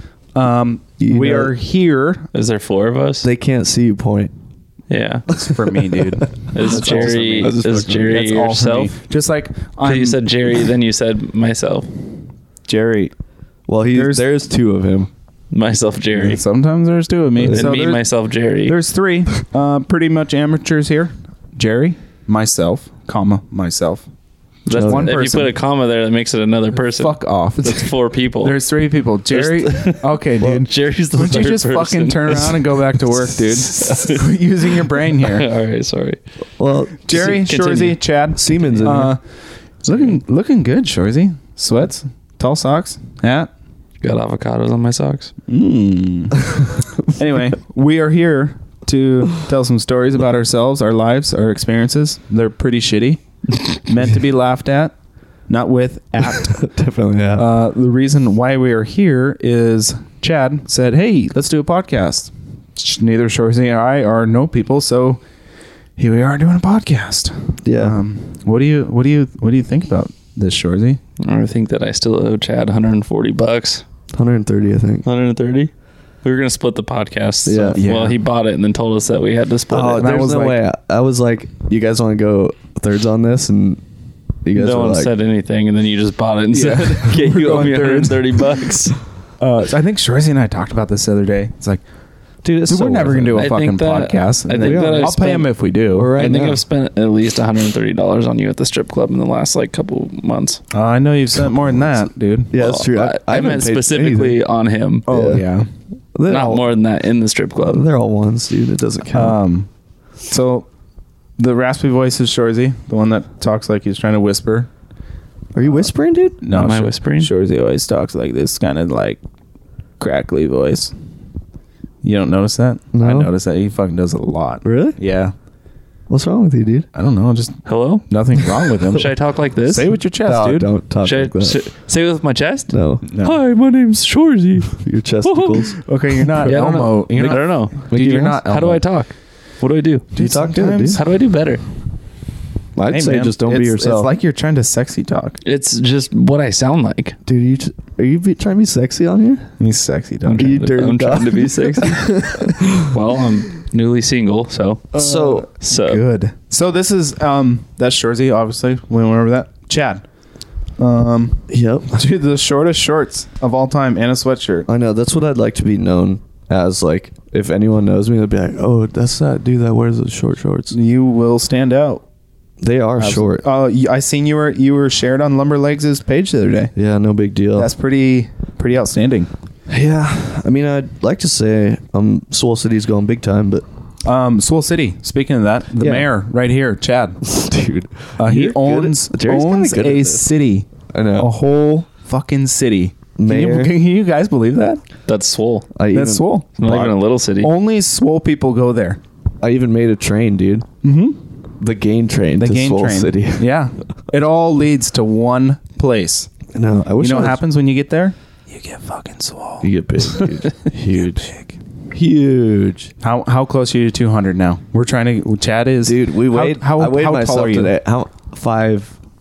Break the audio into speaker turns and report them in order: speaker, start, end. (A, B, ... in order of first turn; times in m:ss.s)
0:00.3-0:02.3 A
0:01.0-0:01.5 B
0:02.3-0:03.3 C
0:03.2-0:04.3 B
0:04.9-0:05.2 C
0:05.3-0:10.2 A
0:05.9-0:08.2 B
0:06.5-0:08.9 C
0:09.8-0:11.9 C
0:12.7-0:13.1 A
0:13.7-0:15.1 B
0:13.9-0:14.3 A
0:15.5-0:16.4 C
0:16.1-0:17.9 A
0:17.4-0:18.0 B
0:17.5-0:18.8 C
0:18.6-0:24.1 A
0:24.6-0:28.6 C
0:24.7-0:25.6 A
0:24.7-0:25.1 B
0:27.0-0:35.5 A
0:29.3-0:34.2 C
0:35.2-0:36.2 C
0:36.6-0:37.0 B
0:37.0-0:39.2 A
0:37.1-0:39.0 C
0:38.4-0:39.1 B
0:39.8-0:43.5 A
0:39.9-0:40.2 C
0:44.0-0:45.3 C
0:45.5-0:54.9 A
0:55.5-0:56.6 A
0:56.4-0:57.5 B
0:57.4-1:05.2 A
1:06.0-1:11.0 A
1:07.6-1:08.0 B
1:11.2-1:13.8 C
1:14.1-1:15.0 B
1:15.0-1:15.7 C
1:16.2-1:20.1 C
1:17.4-1:17.9 B
1:17.8-1:18.2 A
1:19.7-1:23.8 B
1:20.0-1:20.6 A
1:24.4-1:25.1 B
1:24.5-1:29.0 C
1:26.5-1:28.5 A
1:29.4-1:31.8 A
1:32.4-1:36.1 A
1:32.6-1:33.5 B
1:33.3-1:35.5 C
1:34.6-1:35.2 B
1:35.9-1:36.6 B
1:36.1-1:40.6 C
1:40.7-1:42.5 A
1:42.5-1:44.4 B
1:42.5-1:45.1 C
1:45.1-1:45.4 B
1:45.1-1:45.7 A
1:46.1-1:46.7 B
1:46.3-1:47.9 C
1:47.6-1:49.4 B
1:49.1-1:49.7 A
1:50.3-1:50.6 A
1:51.4-1:54.7 A
1:55.5-1:56.4 B
1:56.4-1:59.2 A
1:56.5-1:57.3 C
2:00.0-2:00.9 A
2:02.0-2:05.3 A
2:02.9-2:03.3 B
2:04.6-2:05.0 B
2:06.1-2:06.9 B
2:06.9-2:10.7 A
2:07.6-2:08.0 C
2:08.9-2:09.9 C
2:10.2-2:11.6 B
2:11.0-2:15.8 C
2:12.7-2:13.0 B
2:13.0-2:13.4 A
2:14.7-2:16.6 B
2:15.8-2:18.8 A
2:16.4-2:17.9 C
2:17.1-2:18.4 B
2:18.4-2:20.0 C
2:20.1-2:21.0 A
2:20.1-2:21.0 B
2:20.9-2:21.6 C
2:22.8-2:24.2 B
2:22.9-2:25.4 A
2:25.4-2:27.2 C
2:27.2-2:29.4 B
2:29.6-2:30.5 A
2:30.2-2:36.0 C
2:30.4-2:33.0 B
2:34.9-2:35.5 B
2:34.9-2:40.0 A
2:40.8-2:44.7 A
2:41.5-2:42.0 B
2:44.7-2:50.7 B
2:50.7-2:52.0 A
2:52.6-2:53.4 B
2:53.0-2:56.7 A
2:56.7-2:57.7 B
2:57.5-2:59.3 A
2:59.7-3:03.6 B
3:04.0-3:07.2 A
3:05.8-3:06.1 B
3:07.2-3:10.2 B
3:08.2-3:14.8 A
3:10.9-3:11.3 B
3:13.2-3:13.7 B
3:15.0-3:15.7 C
3:15.7-3:16.2 B
3:15.9-3:19.0 A
3:16.6-3:17.5 C
3:19.4-3:20.7 B
3:20.8-3:21.2 A
3:21.6-3:23.5 B
3:22.4-3:26.3 A
3:26.5-3:27.4 B
3:27.0-3:29.7 A
3:29.6-3:31.3 B
3:31.0-3:31.6 A
3:31.9-3:32.9 B
3:33.0-3:37.7 A
3:35.8-3:39.0 B